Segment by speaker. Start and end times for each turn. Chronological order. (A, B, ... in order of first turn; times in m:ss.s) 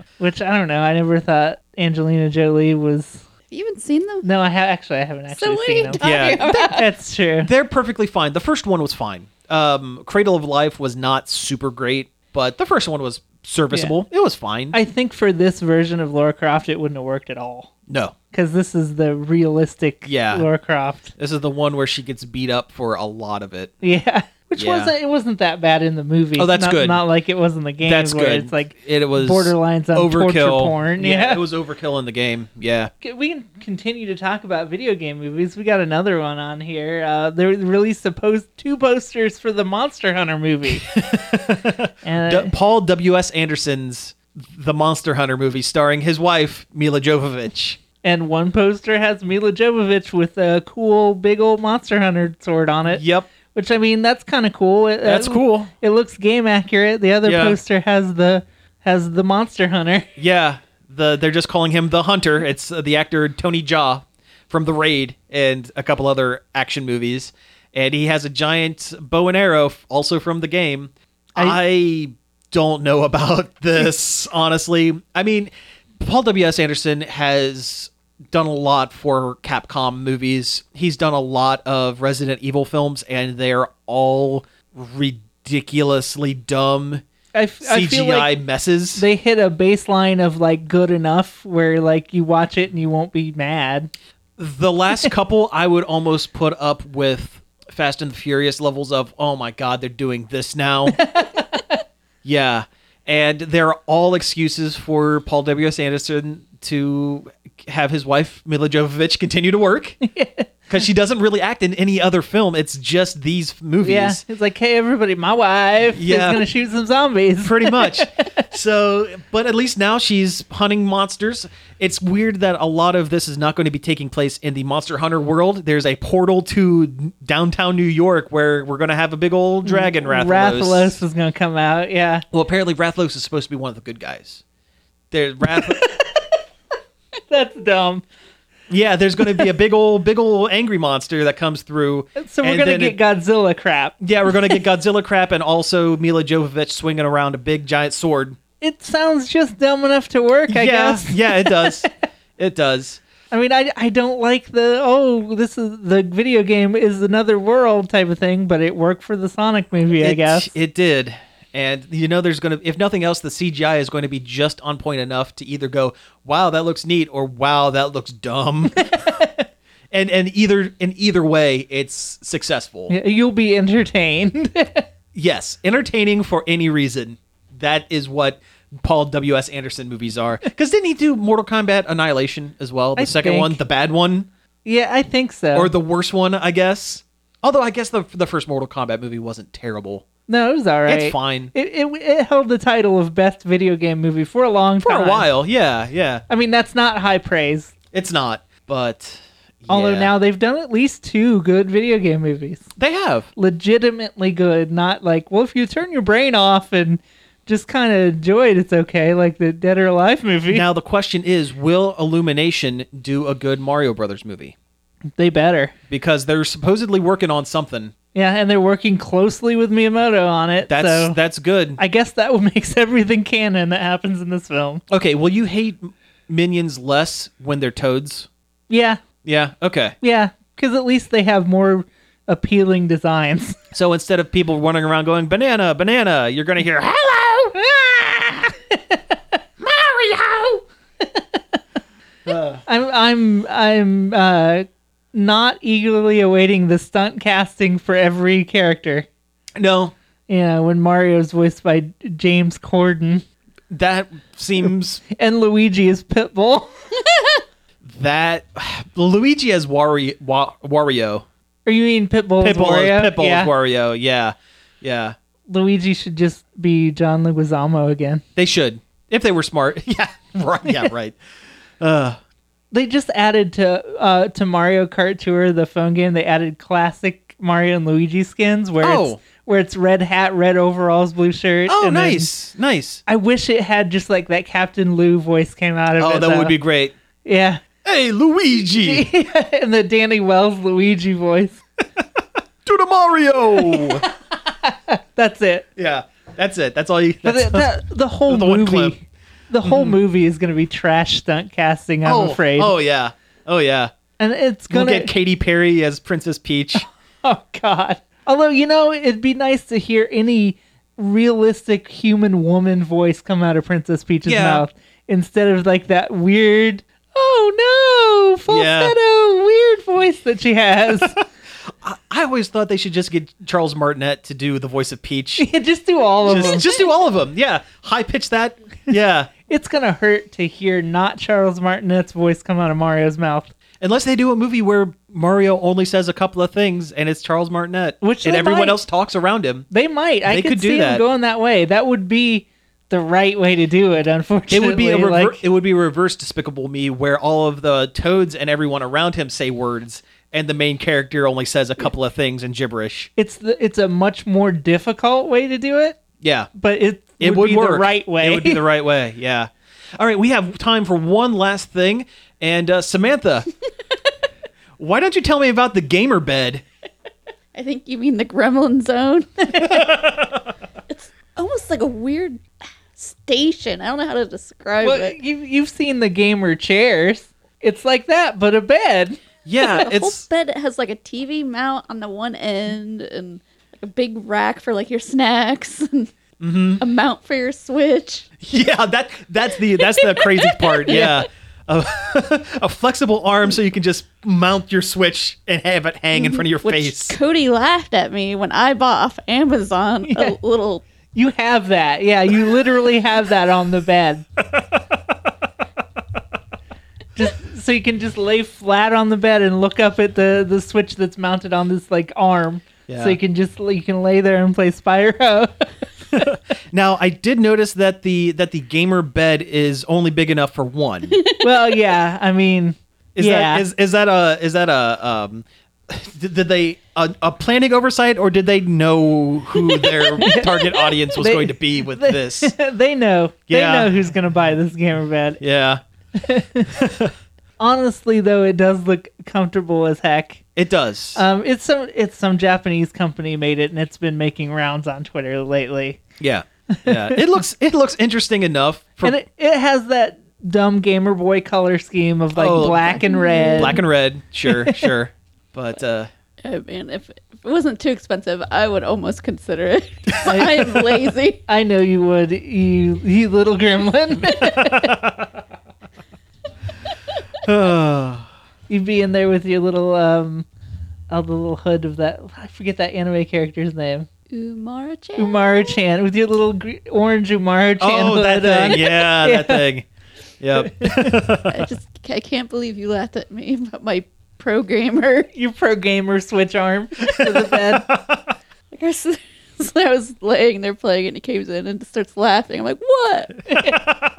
0:00.2-0:03.2 A
0:03.5-0:04.2 B
0:04.2-0:07.5 A
0:05.3-0:06.9 B
0:06.0-0:06.8 C
0:07.4-0:14.8 C
0:13.7-0:14.0 A
0:14.7-0:17.7 A
0:17.9-0:18.2 C
0:18.3-0:21.1 A
0:20.0-0:20.5 C
0:21.2-0:23.7 C
0:23.8-0:31.4 A
0:24.6-0:24.9 C
0:26.4-0:27.0 C
0:27.8-0:32.9 C
0:33.0-0:40.9 A
0:40.8-0:47.8 C
0:42.0-0:42.5 A
0:48.0-1:00.1 A
0:52.9-0:53.3 C
0:55.0-0:55.7 C
0:57.2-0:57.6 C
1:00.2-1:27.0 C
1:27.3-1:28.3 A
1:27.6-1:29.0 C
1:29.0-1:33.9 A
1:34.4-1:41.1 C
1:40.9-1:41.8 A
1:42.2-1:50.0 C
1:50.0-1:50.5 A
1:50.7-1:54.2 C
1:53.8-1:58.3 A
1:56.0-1:56.5 C
1:57.4-2:11.0 C
2:09.6-2:12.2 A
2:12.3-2:14.4 C
2:15.1-2:15.8 C
2:15.5-2:16.4 A
2:17.3-2:18.0 A
2:18.7-2:23.0 C
2:22.2-2:24.0 A
2:24.0-2:28.4 C
2:28.6-2:31.9 A
2:30.5-2:31.9 C
2:32.4-2:33.0 C
2:33.3-2:40.5 A
2:40.0-2:49.2 C
2:48.8-2:49.4 A
2:49.9-2:52.9 C
2:52.9-2:54.9 A
2:55.1-3:04.3 C
3:03.0-3:03.6 A
3:04.6-3:05.7 A
3:05.5-3:10.1 C
3:10.3-3:15.3 A
3:10.9-3:11.5 C
3:14.8-3:16.2 C
3:16.3-3:17.7 A
3:17.9-3:20.1 C
3:19.7-3:22.7 A
3:22.8-3:23.3 C
3:23.4-3:30.7 A
3:30.5-3:34.6 C
3:35.2-3:35.7 A
3:35.9-3:37.9 C
3:38.2-3:41.2 A
3:40.7-3:41.8 C
3:41.8-3:44.8 A
3:44.9-3:48.3 C
3:48.7-3:49.0 A
3:49.2-3:50.0 C
3:50.0-3:53.6 A
3:53.7-3:57.6 C
3:57.6-3:59.4 A
3:59.7-4:00.4 C
4:00.4-4:01.6 A
4:02.3-4:02.6 C
4:02.7-4:09.1 A
4:09.6-4:09.9 C
4:10.3-4:13.2 A
4:13.7-4:15.0 C
4:15.1-4:16.7 A
4:17.8-4:21.3 C
4:21.7-4:23.5 A
4:22.4-4:25.2 C
4:25.5-4:28.2 A
4:28.4-4:31.2 C
4:31.8-4:32.2 C
4:32.7-4:42.3 A
4:38.8-4:39.2 C
4:41.7-4:43.0 C
4:43.1-4:46.6 A
4:46.0-4:47.0 C
4:47.2-4:47.6 A
4:47.8-4:49.1 C
4:48.7-4:51.6 A
4:52.6-4:54.0 C
4:53.5-4:55.7 A
4:55.8-4:57.7 C
4:57.2-5:02.7 A
4:58.3-4:59.0 C
4:59.6-5:00.0 C
5:02.0-5:03.9 C
5:04.2-5:05.1 A
5:04.7-5:06.9 C
5:07.2-5:21.2 A
5:14.3-5:14.6 C
5:18.5-5:19.0 C
5:20.9-5:25.5 C
5:25.4-5:26.7 A
5:26.2-5:29.3 C
5:29.5-5:33.5 A
5:33.8-5:39.7 C
5:38.0-5:38.8 A
5:39.7-5:45.4 A
5:40.3-5:41.0 C
5:44.5-5:53.1 C
5:53.2-5:56.0 A
5:56.2-5:56.5 C
5:56.6-5:58.6 A
5:57.2-6:03.5 C
6:04.8-6:06.6 C
6:07.6-6:09.7 B
6:09.7-6:10.2 C
6:10.9-6:12.4 B
6:13.0-6:15.2 B
6:14.8-6:19.2 A
6:19.4-6:20.3 C
6:19.6-6:26.1 B
6:26.4-6:26.8 C
6:26.8-6:28.3 B
6:28.4-6:37.2 C
6:29.8-6:31.3 B
6:36.1-6:40.8 B
6:40.1-6:40.4 A
6:41.1-6:44.3 A
6:47.2-6:55.9 A
6:52.9-6:53.2 C
6:56.1-7:01.2 C
7:01.1-7:01.4 B
7:01.4-7:03.7 A
7:03.2-7:12.6 C
7:09.8-7:10.2 B
7:10.2-7:15.4 A
7:13.5-7:13.9 C
7:15.4-7:15.8 C
7:16.2-7:16.8 A
7:16.7-7:17.1 C
7:17.6-7:20.4 A
7:20.6-7:21.2 C
7:21.2-7:26.0 A
7:26.2-7:29.2 C
7:26.7-7:27.2 A
7:29.0-7:33.8 A
7:32.4-7:36.1 C
7:32.9-7:33.8 B
7:34.5-7:34.9 A
7:36.4-7:41.4 B
7:40.2-7:40.9 A
7:41.5-7:45.0 A
7:44.4-7:45.3 C
7:47.4-7:48.3 C
7:48.7-7:50.5 A
7:51.1-7:54.1 A
7:54.3-7:55.8 B
7:55.2-7:59.6 A
7:57.8-7:59.9 C
8:00.4-8:01.7 C
8:00.6-8:01.3 A
8:01.5-8:05.3 B
8:05.3-8:07.9 A
8:07.2-8:08.2 C
8:08.7-8:13.5 B
8:13.5-8:13.8 A